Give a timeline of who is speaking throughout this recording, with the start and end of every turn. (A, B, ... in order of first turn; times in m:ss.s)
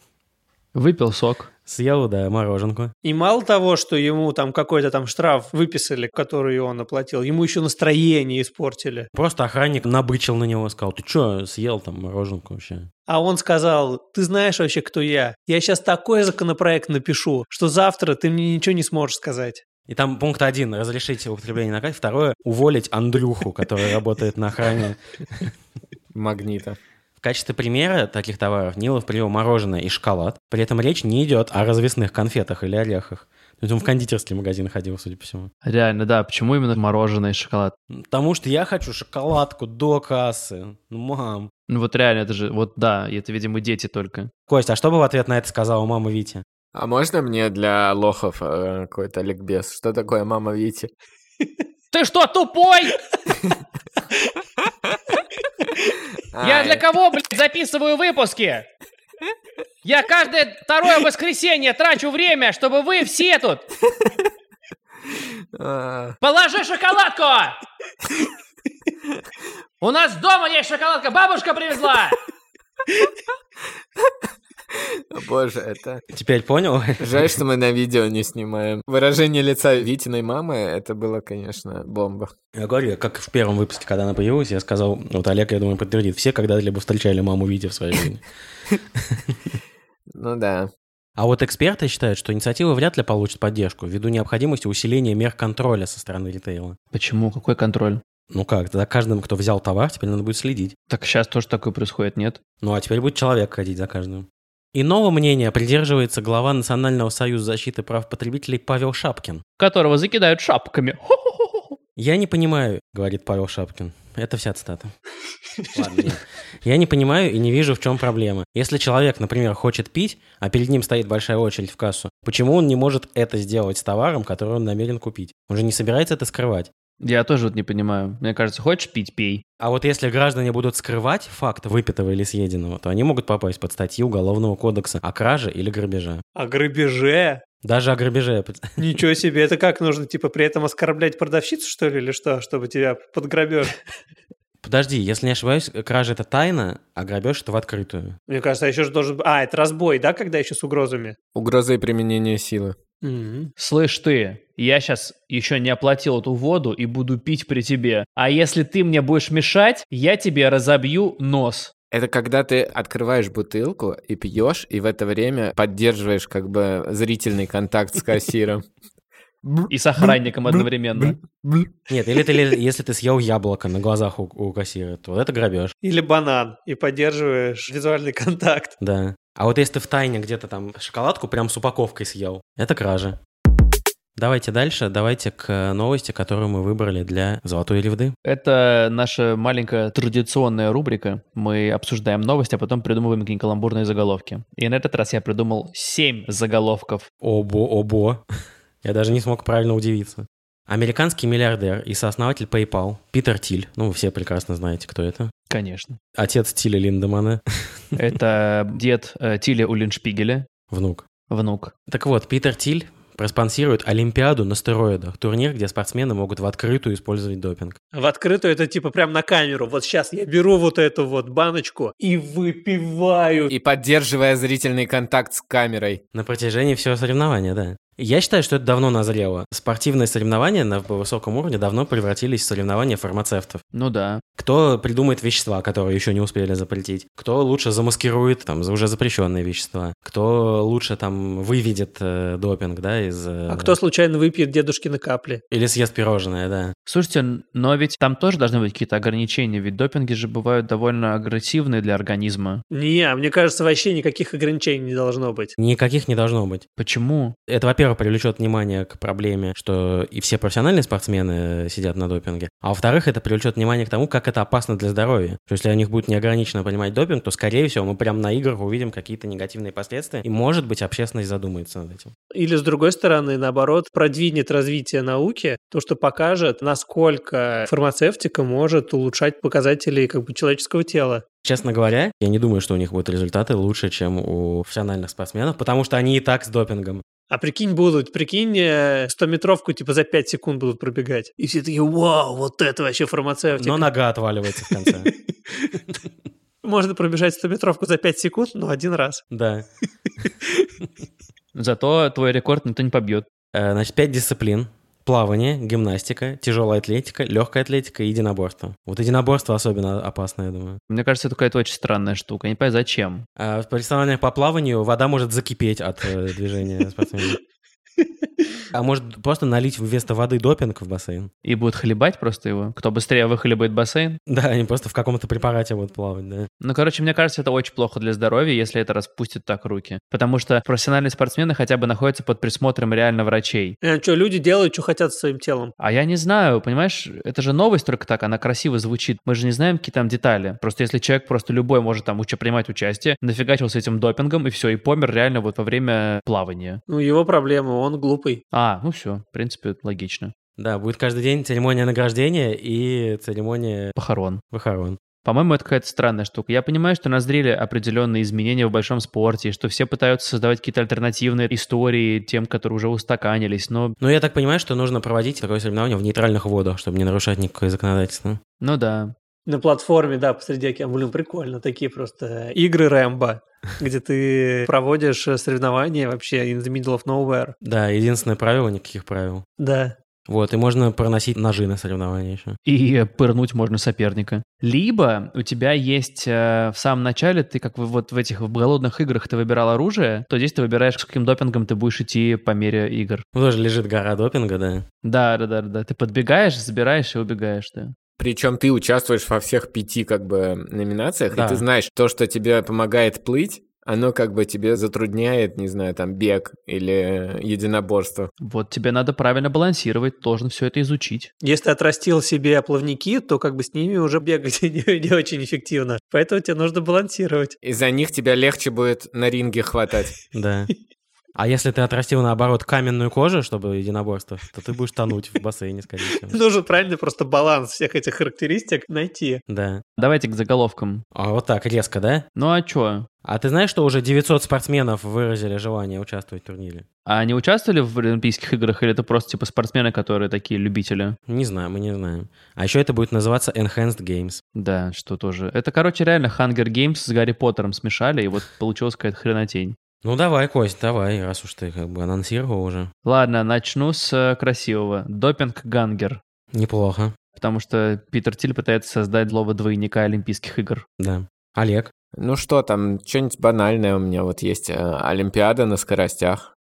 0:00.8-0:01.5 A
0:01.7-0:02.9 B
0:03.0-0:09.1 C
0:09.1-0:12.9 B
0:13.1-0:19.6 C
0:19.9-0:25.5 B
0:26.1-0:26.8 D
0:27.2-0:35.5 B
0:35.6-0:37.8 A
0:37.9-0:41.5 B
0:41.7-0:44.3 A
0:44.5-0:46.4 B
0:46.7-0:50.9 D
0:51.9-0:53.0 A
0:56.2-0:56.8 D
0:56.4-0:58.7 A
0:59.8-1:03.6 A
1:05.5-1:06.2 D
1:06.2-1:07.6 A
1:09.8-1:12.2 A
1:15.1-1:16.0 D
1:16.1-1:17.4 B
1:17.0-1:22.3 D
1:22.6-1:28.2 B
1:30.1-1:30.7 D
1:31.2-1:36.8 B
1:36.9-1:38.0 A
1:38.3-1:40.7 B
1:40.9-1:42.4 A
1:42.6-1:49.4 B
1:49.6-1:51.8 A
1:52.0-1:54.9 B
1:55.7-2:06.7 B
2:07.0-2:09.4 A
2:09.6-2:16.2 B
2:16.4-2:17.4 C
2:17.6-2:18.7 B
2:18.8-2:23.8 C
2:24.6-2:28.2 B
2:28.3-2:31.2 C
2:31.4-2:32.8 D
2:33.0-2:33.5 C
2:33.6-2:41.7 A
2:41.9-2:48.6 D
2:49.7-2:51.2 A
2:51.9-2:55.7 B
2:55.8-2:58.8 C
2:58.8-3:03.2 B
3:04.2-3:08.2 B
3:08.2-3:17.1 A
3:17.2-3:18.2 B
3:18.8-3:25.3 B
3:25.5-3:26.0 A
3:26.2-3:27.4 B
3:28.0-3:30.5 A
3:30.7-3:31.0 B
3:31.3-3:31.7 A
3:31.9-3:37.8 B
3:37.9-3:43.5 C
3:43.5-3:46.0 D
3:46.1-3:53.6 B
3:53.7-3:54.2 A
3:54.4-4:03.8 B
4:03.5-4:05.4 C
4:05.5-4:06.7 B
4:06.9-4:12.6 A
4:12.7-4:15.6 C
4:15.6-4:16.6 B
4:16.8-4:17.4 A
4:17.5-4:32.1 B
4:32.3-4:41.2 C
4:41.4-4:47.0 B
4:47.3-4:53.9 C
4:53.6-4:55.1 B
4:56.6-4:59.2 C
4:59.3-4:59.7 B
5:01.6-5:03.3 A
5:03.5-5:10.8 B
5:10.9-5:13.2 A
5:13.4-5:17.4 B
5:18.7-5:21.3 B
5:21.4-5:24.2 A
5:24.3-5:26.5 B
5:26.6-5:33.8 A
5:33.8-5:35.7 C
5:35.8-5:46.8 A
5:46.9-5:48.4 C
5:48.5-5:50.3 A
5:50.6-5:54.0 B
5:54.0-5:54.4 A
5:54.5-5:55.0 B
5:55.2-6:04.0 A
6:04.0-6:08.4 B
6:08.6-6:09.1 A
6:09.5-6:17.6 C
6:17.6-6:19.4 B
6:19.6-6:20.0 C
6:20.3-6:22.6 B
6:22.6-6:33.2 A
6:33.3-6:34.9 B
6:35.0-6:38.0 A
6:38.2-6:48.3 D
6:41.3-6:41.7 B
6:48.4-6:51.3 A
6:51.4-6:57.6 C
6:57.6-7:00.2 D
7:00.3-7:00.7 B
7:01.4-7:06.4 B
7:06.3-7:09.4 C
7:09.5-7:09.8 B
7:10.0-7:11.0 A
7:11.1-7:12.3 B
7:12.4-7:13.1 A
7:13.2-7:16.9 B
7:17.1-7:21.2 A
7:21.3-7:24.4 B
7:24.6-7:29.8 A
7:30.0-7:32.9 B
7:33.0-7:36.2 A
7:36.5-7:37.1 B
7:37.4-7:40.8 A
7:41.0-7:41.9 B
7:42.2-7:46.5 D